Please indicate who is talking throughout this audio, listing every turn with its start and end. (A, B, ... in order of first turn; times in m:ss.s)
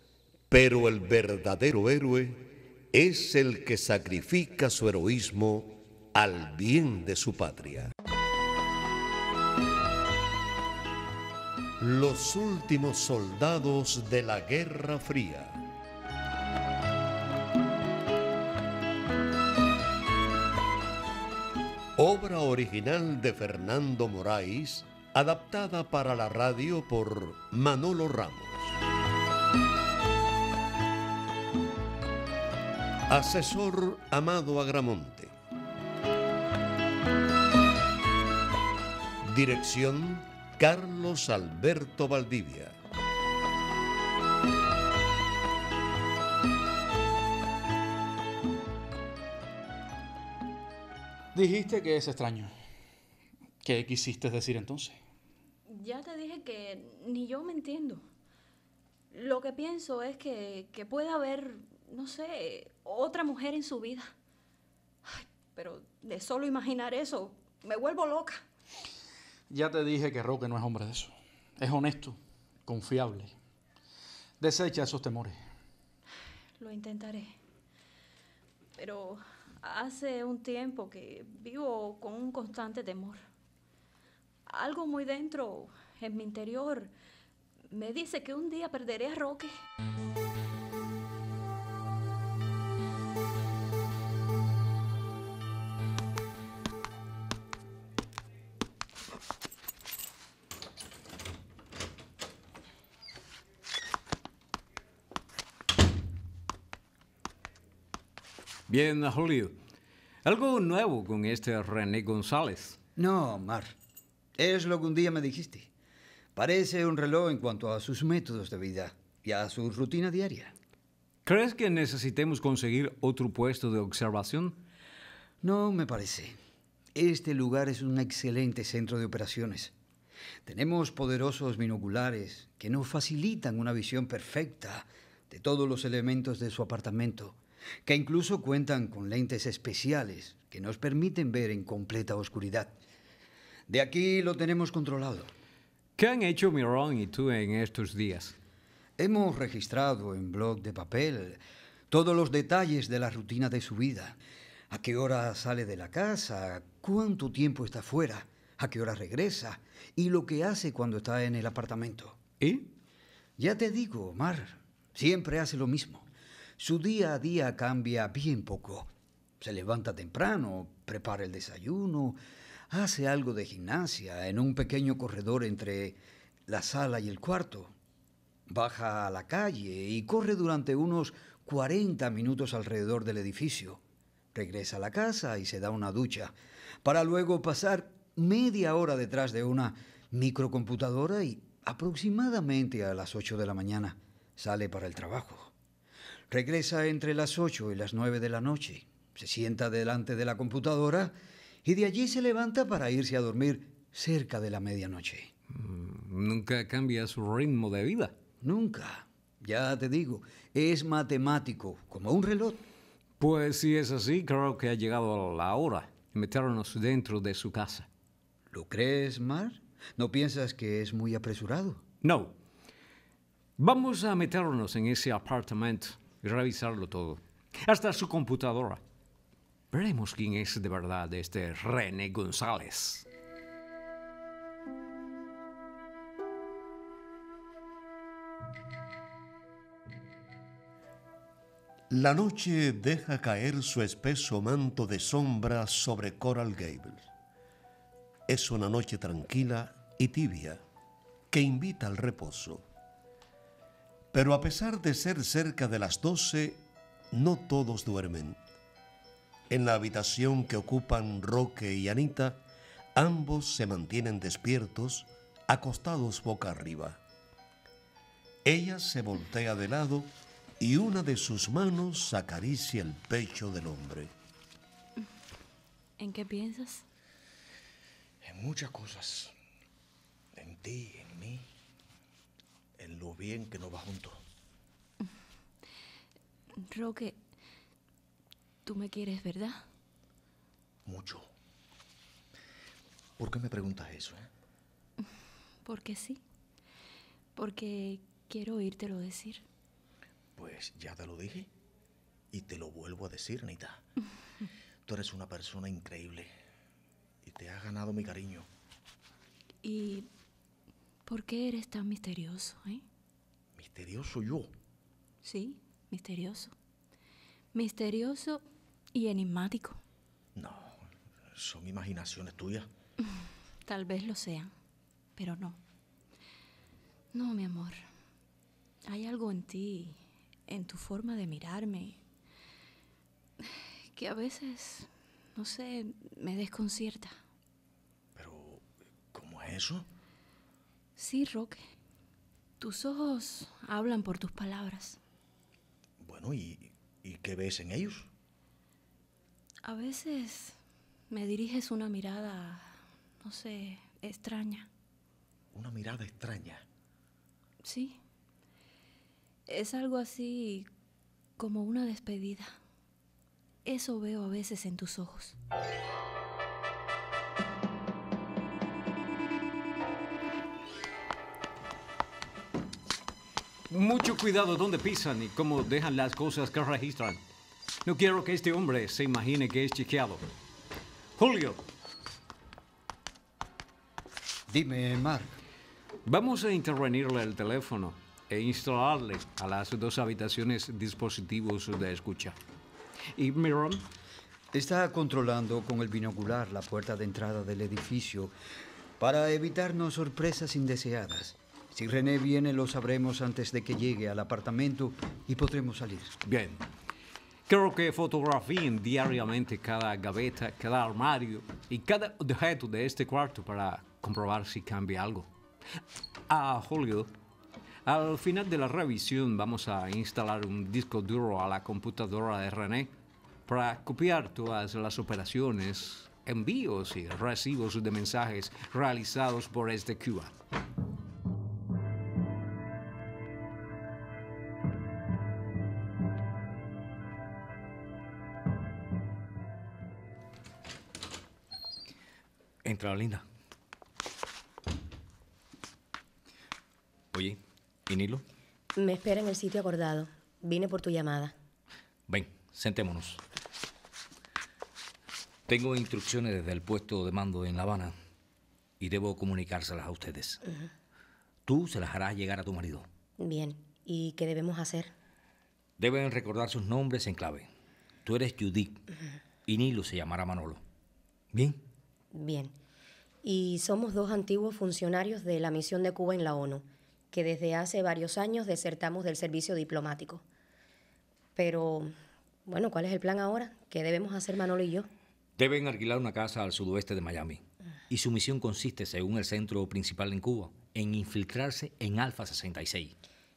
0:00.5-0:07.9 A
0:11.8-0:15.6 A
0:22.0-0:28.8 A
0:33.1-0:35.3 A
0:39.2-0:42.8 A
0:51.4-0:52.5 B
0:53.6-0:55.0 B
0:55.7-0:58.0 C
0:59.1-1:04.1 C
1:05.1-1:08.4 C
1:09.5-1:13.3 B
1:14.4-1:15.4 B
1:16.6-1:17.3 C
1:18.8-1:23.2 C
1:24.5-1:26.9 C
1:27.7-1:29.5 C
1:48.7-1:49.6 D
1:50.2-1:52.8 D
1:53.0-1:53.7 E
1:54.4-1:55.7 E
1:56.4-2:00.5 E
2:01.2-2:04.6 D
2:05.4-2:06.4 E
2:07.0-2:09.7 E
2:10.4-2:22.7 E
2:23.7-2:25.3 E
2:26.0-2:28.4 D
2:29.0-2:34.2 E
2:34.7-2:42.2 E
2:42.4-2:42.7 D
2:43.4-2:46.1 E
2:46.6-2:48.9 E
2:49.4-2:52.2 E
2:52.7-2:57.7 E
2:58.5-3:03.8 E
3:04.3-3:15.5 E
3:16.3-3:21.1 E
3:21.6-3:25.3 E
3:25.5-3:28.2 D
3:28.4-3:32.6 E
3:33.2-3:37.9 D
3:38.5-3:41.8 E
3:42.0-3:42.4 D
3:43.6-3:48.8 D
3:49.7-3:53.1 D
4:01.9-4:07.1 A
4:08.3-4:10.6 A
4:11.3-4:12.6 A
4:14.1-4:16.6 A
4:17.1-4:18.4 A
4:19.5-4:22.4 A
4:23.0-4:27.0 A
4:28.4-4:34.1 A
4:36.0-4:36.8 C
4:38.3-4:39.3 F
4:40.4-4:41.4 F
4:42.8-4:44.2 F
4:46.7-4:47.2 C
4:48.6-4:49.6 C
4:50.9-4:51.3 F
4:53.2-4:54.3 F
4:55.6-4:56.2 C
4:57.4-4:59.4 C
5:00.4-5:01.5 F
5:02.3-5:03.8 F
5:04.9-5:06.3 F
5:07.2-5:08.5 F
5:09.6-5:10.1 C
5:11.1-5:12.8 C
5:13.6-5:14.5 F
5:15.2-5:16.5 C
5:17.5-5:19.8 C
5:20.4-5:20.7 F
5:21.4-5:22.7 F
5:23.6-5:24.5 C
5:25.2-5:25.6 C
5:27.1-5:27.8 C
5:28.8-5:32.0 C
5:33.9-5:37.2 C
5:38.2-5:38.6 F
5:39.1-5:39.9 F
5:41.0-5:41.6 C
5:42.6-5:45.0 C
5:46.0-5:48.1 F
5:49.6-5:50.6 C
5:51.1-5:54.7 C
5:55.5-5:56.6 F
5:57.6-5:58.0 C
5:59.5-6:00.7 C
6:01.4-6:02.5 C
6:03.6-6:05.4 C
6:13.7-6:17.2 D
6:17.8-6:20.2 D
6:21.2-6:21.6 D
6:24.5-6:25.4 E
6:26.1-6:32.4 D
6:33.2-6:33.9 D
6:34.5-6:38.3 E
6:39.0-6:46.1 E
6:46.2-6:46.6 D
6:47.5-6:55.3 D
6:56.3-6:57.1 D
6:57.8-7:02.9 D
7:03.5-7:10.3 D
7:22.6-7:23.2 G
7:27.1-7:28.2 G
7:28.8-7:31.3 H
7:32.1-7:33.2 G
7:35.5-7:37.9 G
7:38.8-7:40.4 G
7:41.5-7:42.9 G
7:43.2-7:44.9 H
7:45.8-7:47.5 G
7:48.0-7:48.8 G
7:49.5-7:50.6 G
7:51.3-7:51.6 G
7:52.1-7:52.5 H
7:53.2-8:00.2 H
8:01.4-8:01.9 H
8:02.5-8:04.9 H
8:05.4-8:12.9 G